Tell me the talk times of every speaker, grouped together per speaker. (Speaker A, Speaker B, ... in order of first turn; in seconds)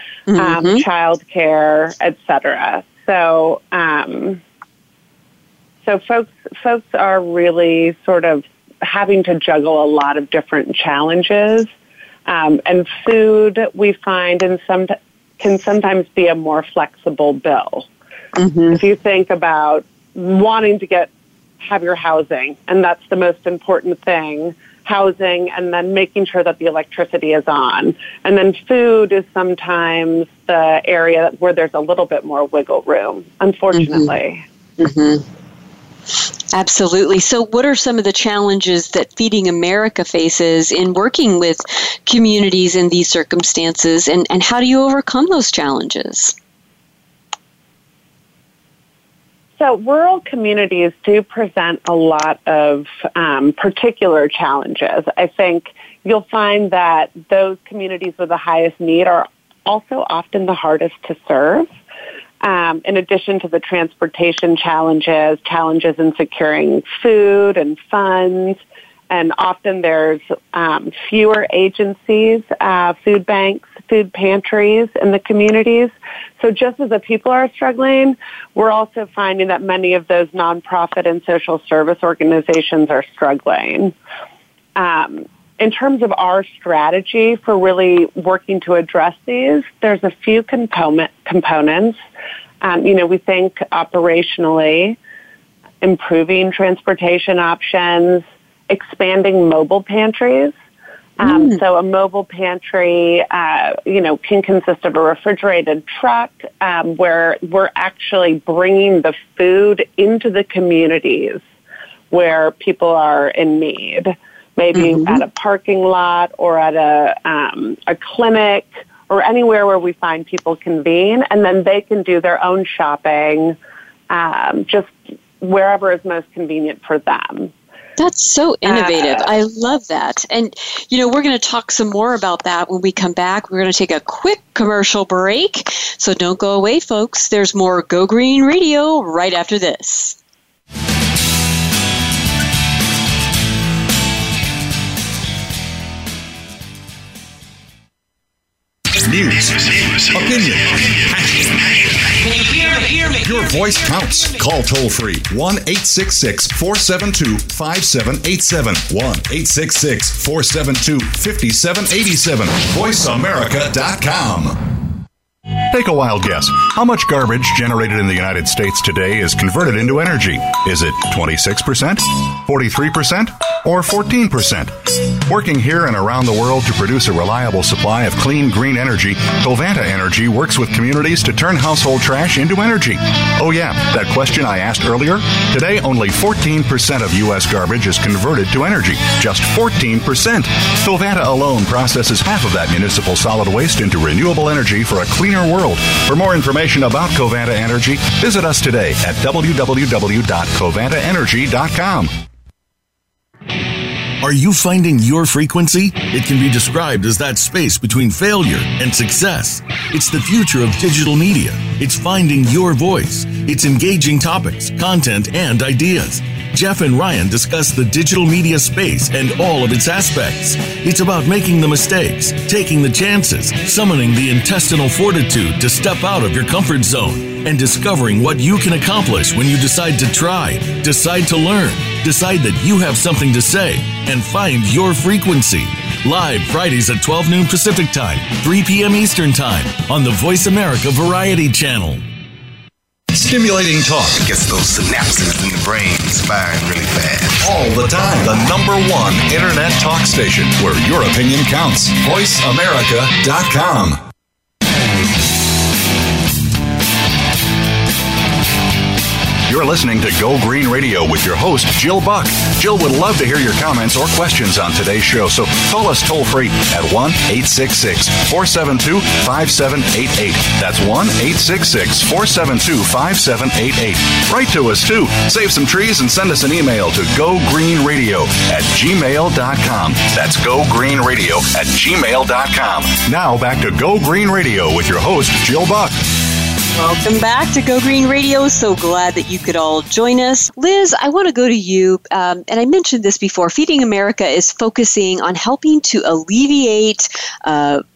Speaker A: 0.3-0.8, 18.3-18.8, 33.7-34.1, 34.8-35.2, 36.5-46.3, 101.2-101.6, 114.8-115.2, 128.0-140.2, 286.7-297.8
Speaker B: 0.3-4.4, 5.8-11.7, 12.2-17.9, 18.7-34.4, 49.6-61.7, 62.4-83.9, 84.7-92.0, 92.6-95.0, 95.8-100.5, 101.2-111.4, 112.1-123.5, 124.1-127.5, 128.7-129.3
Speaker C: 149.0-151.7, 153.1-164.7, 165.7-202.1, 243.1-244.2, 247.4-254.0, 259.5-286.0
Speaker D: 204.2-242.0
Speaker E: 244.1-247.4